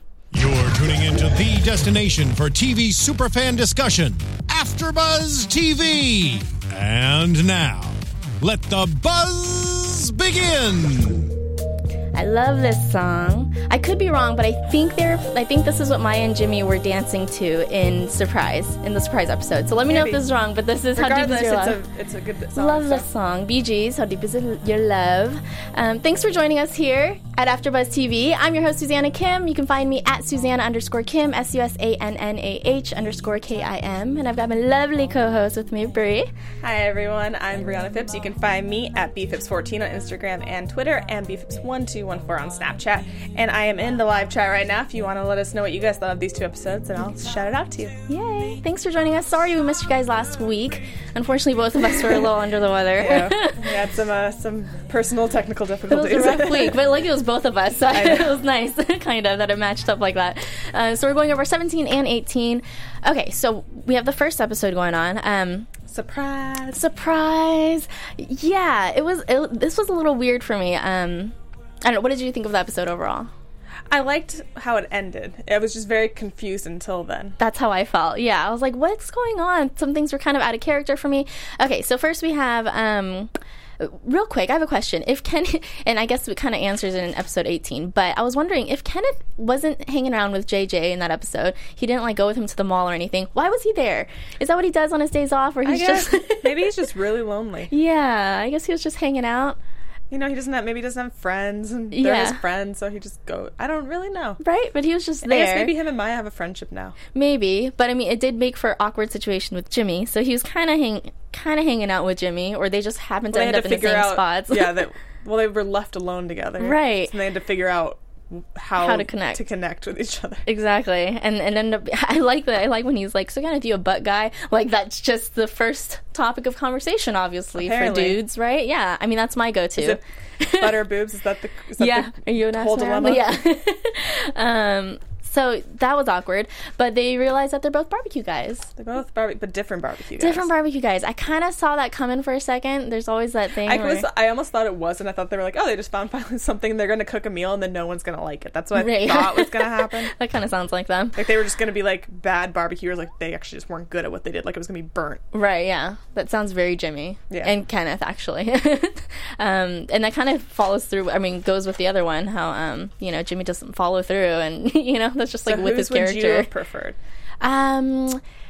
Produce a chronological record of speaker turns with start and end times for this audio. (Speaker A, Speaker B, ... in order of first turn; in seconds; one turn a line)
Speaker A: 0.3-11.3
Speaker B: 12.1-21.8
Speaker C: 19.8-20.2
Speaker C: 20.9-23.0
Speaker B: 22.6-36.3
Speaker C: 36.6-47.9
Speaker B: 48.1-53.6
Speaker C: 52.0-52.3
Speaker C: 53.0-56.8
Speaker B: 55.9-65.7
Speaker C: 57.9-58.3
Speaker C: 65.9-66.8
Speaker B: 66.7-73.3
Speaker C: 73.9-77.4
Speaker B: 77.4-96.6
Speaker C: 95.6-97.7
Speaker B: 97.7-99.6
Speaker C: 100.1-104.4
Speaker B: 101.9-102.4
Speaker B: 104.4-105.7
Speaker C: 105.2-107.0
Speaker B: 107.1-114.8
Speaker C: 113.3-120.4
Speaker B: 116.6-117.1
Speaker B: 118.8-119.4
Speaker B: 120.5-130.8
Speaker C: 127.5-128.2
Speaker C: 130.6-133.3
Speaker B: 131.8-138.7
Speaker C: 138.8-140.5
Speaker B: 140.2-144.1
Speaker C: 143.6-150.1
Speaker B: 148.7-151.2
Speaker C: 151.2-155.2
Speaker B: 155.3-166.5
Speaker C: 165.5-167.0
Speaker B: 167.4-168.2